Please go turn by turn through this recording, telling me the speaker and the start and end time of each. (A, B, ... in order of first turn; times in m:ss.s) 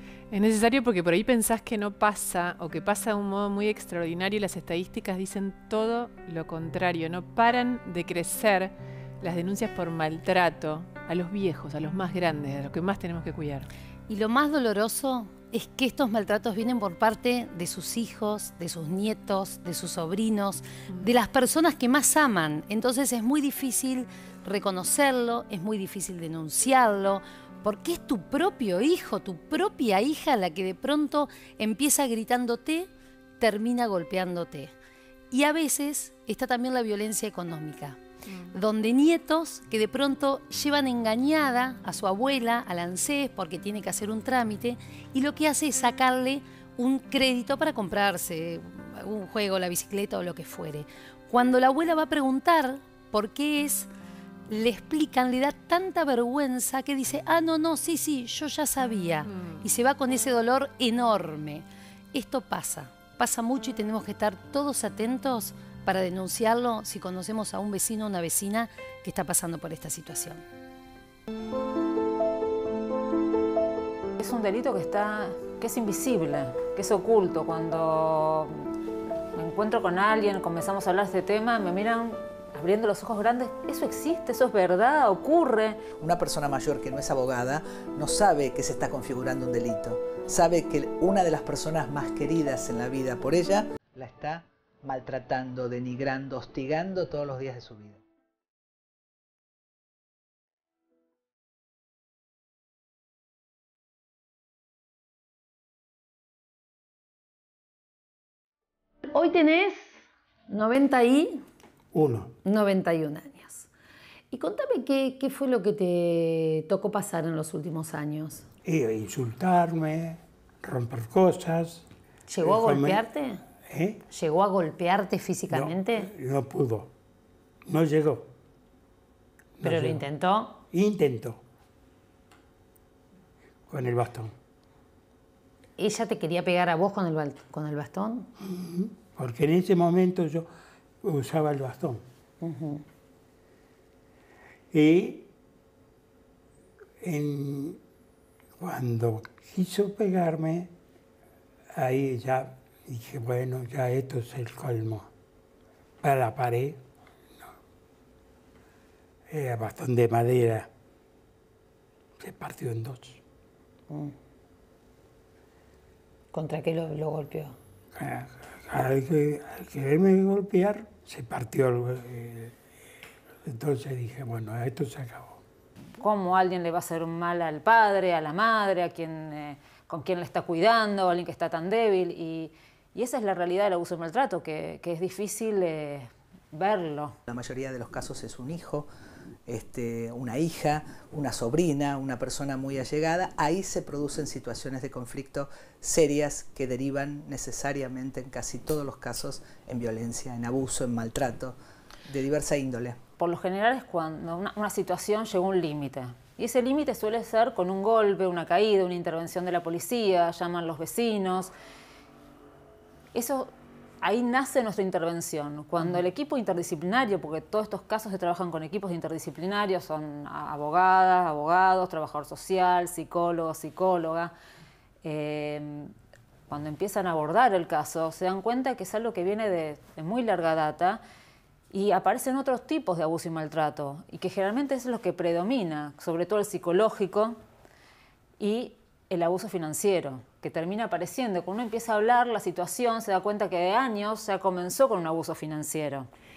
0:00.3-0:13.7 A
0:14.1-0:32.9 B
0:33.4-0:34.7 B
0:35.3-0:38.0 B
0:38.3-0:38.6 A
0:38.5-0:53.9 B
0:54.5-1:10.4 B
1:14.2-1:18.7 C
1:19.3-1:25.8 C
1:26.0-1:38.0 D
1:49.1-1:49.9 B
1:50.5-1:51.4 B
1:51.9-1:52.3 E
1:52.4-1:53.7 B
1:54.3-1:58.4 B
1:58.7-2:01.8 E
2:02.3-2:03.4 B
2:02.4-2:03.0 E
2:03.7-2:04.0 E
2:04.1-2:06.1 B
2:05.5-2:06.9 E
2:07.7-2:08.3 E
2:09.6-2:10.0 E
2:09.6-2:10.6 B
2:10.7-2:11.4 E
2:13.7-2:14.3 E
2:15.8-2:18.3 B
2:18.4-2:20.5 E
2:21.0-2:22.0 E
2:22.4-2:22.8 B
2:24.7-2:25.3 E
2:27.0-2:27.8 E
2:28.6-2:30.7 E
2:31.7-2:35.1 E
2:36.0-2:36.8 E
2:39.3-2:40.7 E
2:42.2-2:43.2 E
2:46.3-2:47.5 B
2:47.9-2:52.6 E
2:53.4-2:55.4 E
2:56.0-3:07.1 C
3:07.3-3:08.9 D
3:09.5-3:23.0 D
3:23.2-3:31.5 C
3:33.1-3:44.3 C
3:45.0-3:45.9 C
3:46.5-3:51.0 C
3:51.7-3:57.4 C
3:58.4-4:06.1 C